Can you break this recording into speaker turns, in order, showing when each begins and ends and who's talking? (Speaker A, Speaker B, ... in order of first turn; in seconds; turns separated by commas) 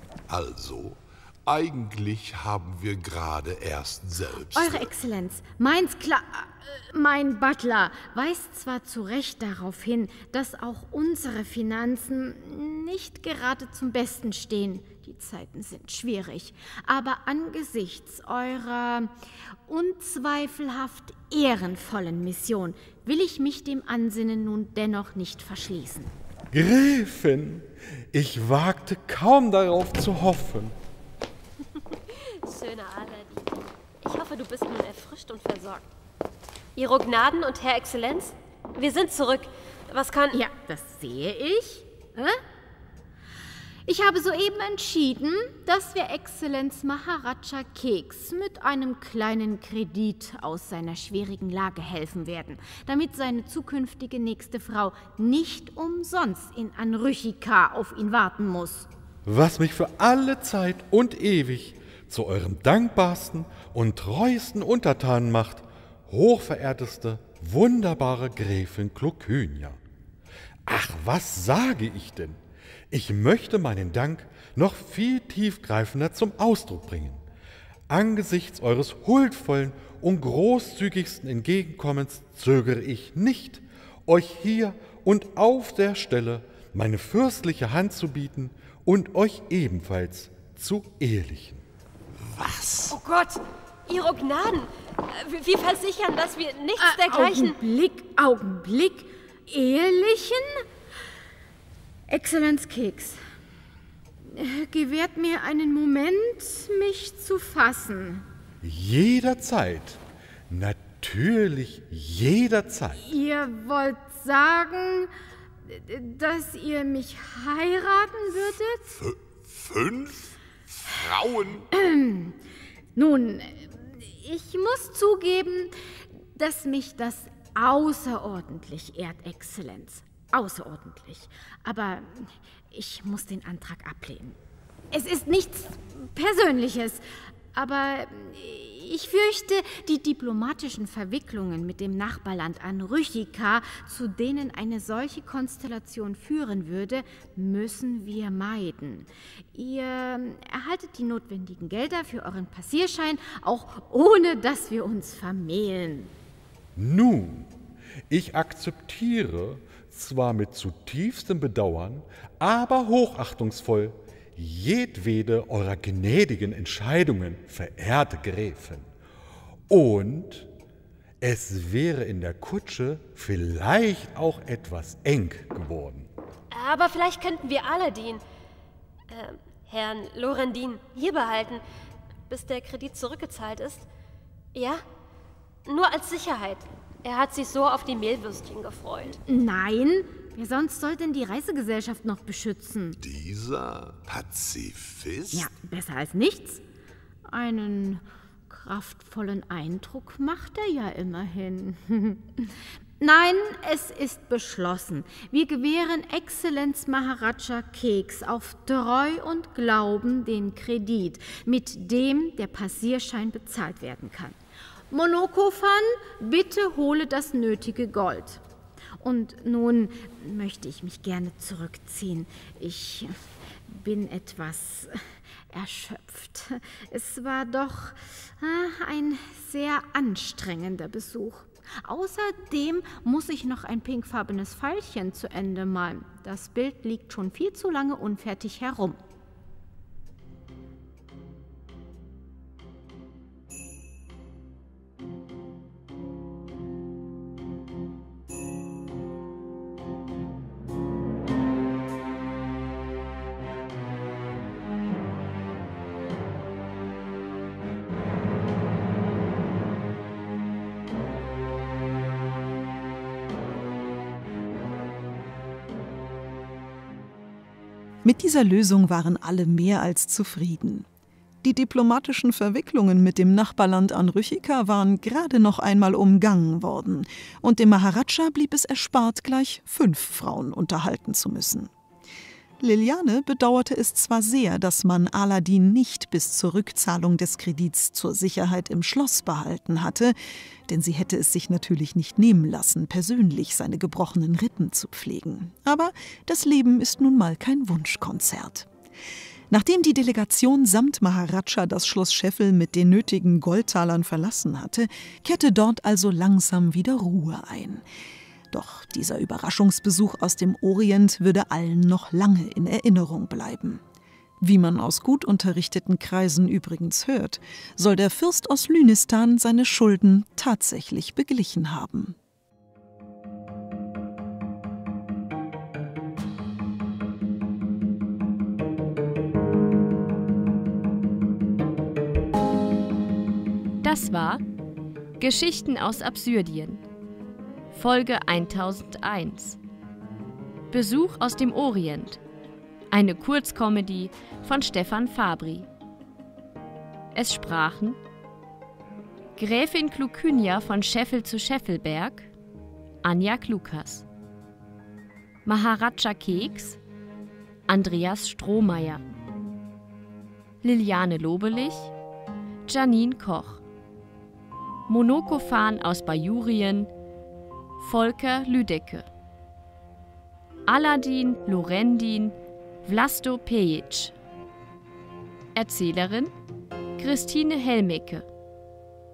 Speaker A: 0.3-4.9, Speaker B: 4.5-19.1, Speaker B: 19.7-26.1, Speaker C: 26.5-30.8, Speaker D: 32.1-35.9, Speaker D: 36.8-40.4, Speaker B: 40.3-42.4, Speaker B: 43.9-58.9, Speaker C: 59.3-69.8, Speaker C: 70.7-77.2, Speaker C: 77.9-91.7, Speaker A: 92.2-93.0, Speaker D: 92.9-97.6, Speaker B: 96.8-100.7, Speaker B: 102.1-103.2, Speaker B: 104.2-108.2, Speaker C: 108.6-113.1, Speaker B: 113.0-115.1, Speaker B: 115.7-119.0, Speaker A: 118.9-121.7, Speaker B: 121.7-122.4, Speaker B: 123.0-125.7, Speaker B: 126.3-134.4, Speaker B: 134.9-156.1, Speaker C: 156.8-157.5, Speaker C: 158.1-168.9, Speaker C: 169.7-170.5, Speaker C: 171.2-176.1, Speaker D: 176.5-178.2, Speaker D: 179.1-181.6, Speaker D: 182.3-183.9, Speaker D: 184.5-184.8, Speaker D: 185.7-189.2, Speaker B: 189.3-193.0, Speaker A: 193.0-195.5, Speaker B: 195.3-196.6, Speaker B: 197.3-214.4, Speaker B: 214.9-218.4, Speaker B: 219.0-223.2, Speaker B: 223.7-239.0, Speaker E: 268.0-270.9, Speaker E: 271.4-281.7, Speaker E: 282.6-290.2, Speaker E: 290.7-298.7, Speaker E: 299.5-307.8, Speaker E: 308.5-313.8, Speaker E: 314.4-322.2, Speaker F: 333.8-334.4, Speaker F: 335.2-336.8, Speaker F: 337.7-339.6, Speaker F: 340.7-342.2, Speaker F: 342.9-345.7, Speaker F: 347.1-348.0, Speaker F: 349.4-352.3, Speaker F: 353.0-354.1, Speaker F: 355.5-356.8, Speaker F: 357.7-359.0, Speaker F: 360.6-361.9, Speaker F: 362.7-363.6, Speaker F: 364.9-366.9, Speaker F: 367.8-369.1, Speaker F: 370.7-374.1, Speaker F: 375.6-376.3, Speaker F: 377.0-378.3